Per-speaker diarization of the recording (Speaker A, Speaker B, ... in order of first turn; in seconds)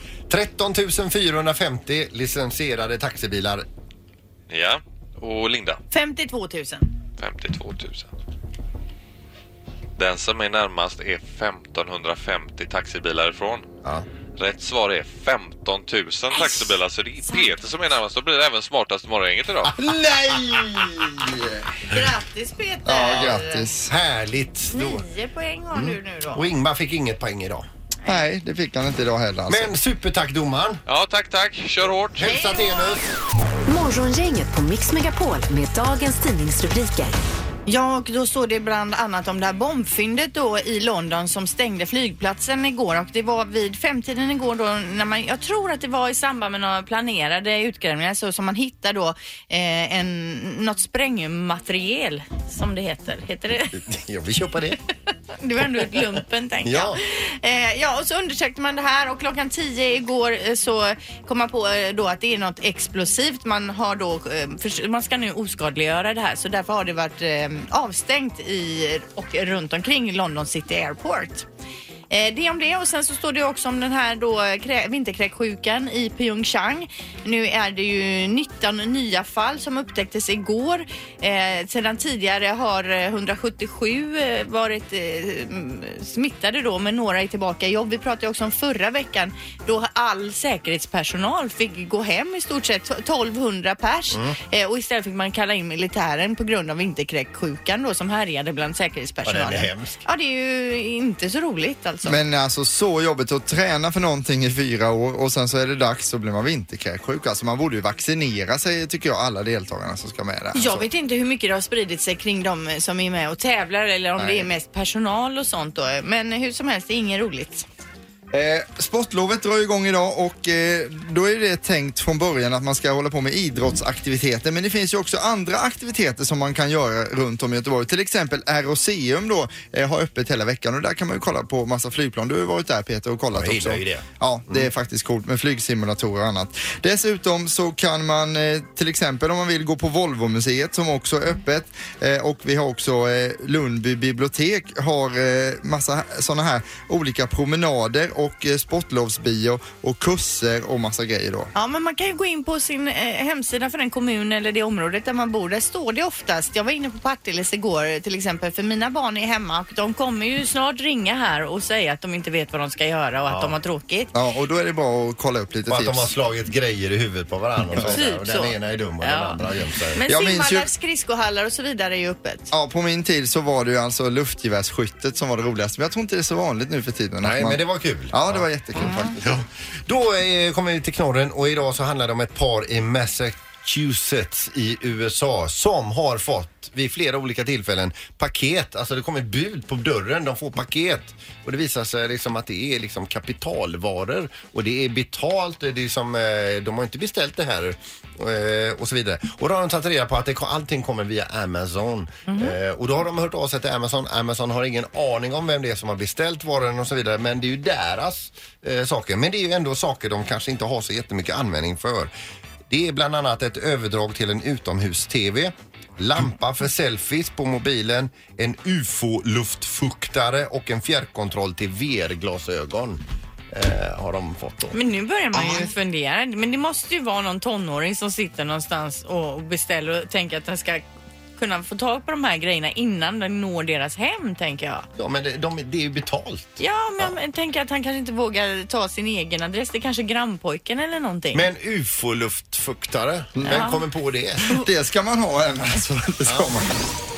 Speaker A: 0.3-3.6, 23.9-25.0, 25.7-27.6, 29.5-30.8, 32.1-33.0, 53.8-54.8, 56.6-57.0, 94.1-94.4, 99.2-100.0, 133.3-134.7, 163.2-163.6, 165.7-170.0, 177.2-178.5, 179.2-212.1, 212.7-224.8, 235.0-237.1, 241.3-244.5, 246.2-246.5
Speaker B: 4.5-5.8, 7.2-8.1, 10.0-13.7, 14.4-19.7, 30.9-32.3
Speaker C: 5.9-6.9, 16.3-16.7, 17.2-17.5, 21.9-23.7, 24.7-26.4, 32.2-32.9, 37.6-53.8, 55.4-71.5, 72.1-102.2, 110.5-117.7, 151.5-164.1, 167.7-169.4, 169.9-172.5, 178.8-179.1, 202.3-202.5, 224.7-234.9, 236.6-241.5, 243.4-243.8
Speaker D: 19.8-21.6, 22.8-23.9, 28.1-29.7, 102.0-110.8, 114.2-114.5, 118.3-151.5, 164.1-166.1, 170.1-170.7, 172.5-179.3, 243.3-243.7, 244.5-246.8
Speaker E: 33.7-37.2